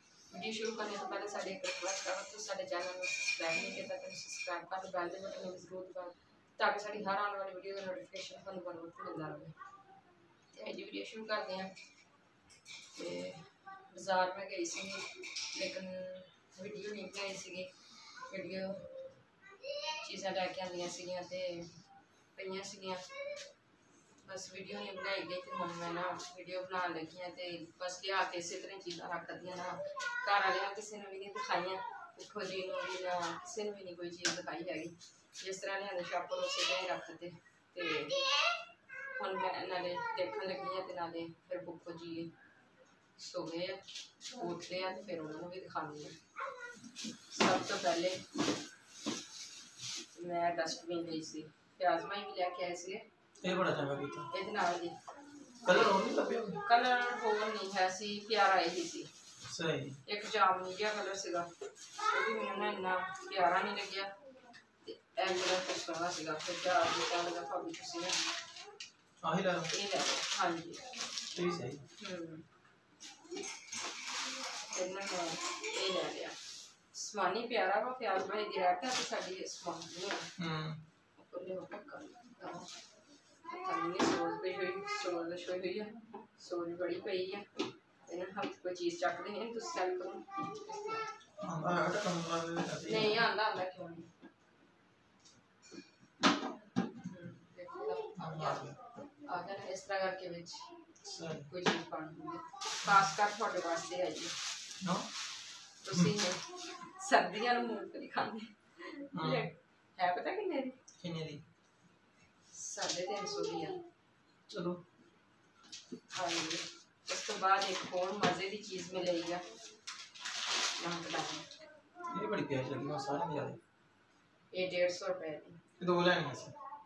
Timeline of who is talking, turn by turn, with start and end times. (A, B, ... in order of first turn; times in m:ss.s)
0:00.3-0:09.5 A
0:10.5-0:11.7 A
0:13.0-0:17.7 A
0:18.3-0:18.9 A
0:19.9-0:21.7 A
0:22.4-0:23.0 A
0:24.2-0:38.3 A
0:39.2-0:42.3 A
0:43.2-0:46.2 A
0:47.3-0:48.2 A
0:50.1-0:53.0 A
0:53.4-0:54.3 B
0:54.3-0:55.0 A
0:55.6-0:56.6 B
0:55.6-0:59.1 A
0:59.5-1:00.0 B
1:00.1-1:01.5 A
1:02.1-1:04.1 A
1:04.8-1:08.2 A
1:09.2-1:09.7 B
1:09.7-1:10.9 A
1:11.3-1:11.8 B
1:12.0-1:12.5 A
1:14.7-1:16.4 A
1:16.9-1:20.3 A
1:20.4-1:20.8 B
1:21.2-1:22.7 A
1:23.5-1:27.5 A
1:28.1-1:31.1 A
1:31.4-1:33.2 B
1:32.9-1:34.1 A
1:37.0-1:40.7 A
1:38.2-1:38.8 B
1:41.0-1:41.5 B
1:41.5-1:44.4 A
1:42.9-1:43.1 B
1:44.8-1:45.1 B
1:45.8-1:50.8 A
1:49.1-1:49.5 B
1:51.0-1:51.4 B
1:52.5-1:53.8 A
1:54.5-1:54.8 B
1:56.1-1:59.4 A
2:00.8-2:01.5 A
2:02.1-2:03.6 B
2:04.5-2:05.6 A
2:05.8-2:06.6 B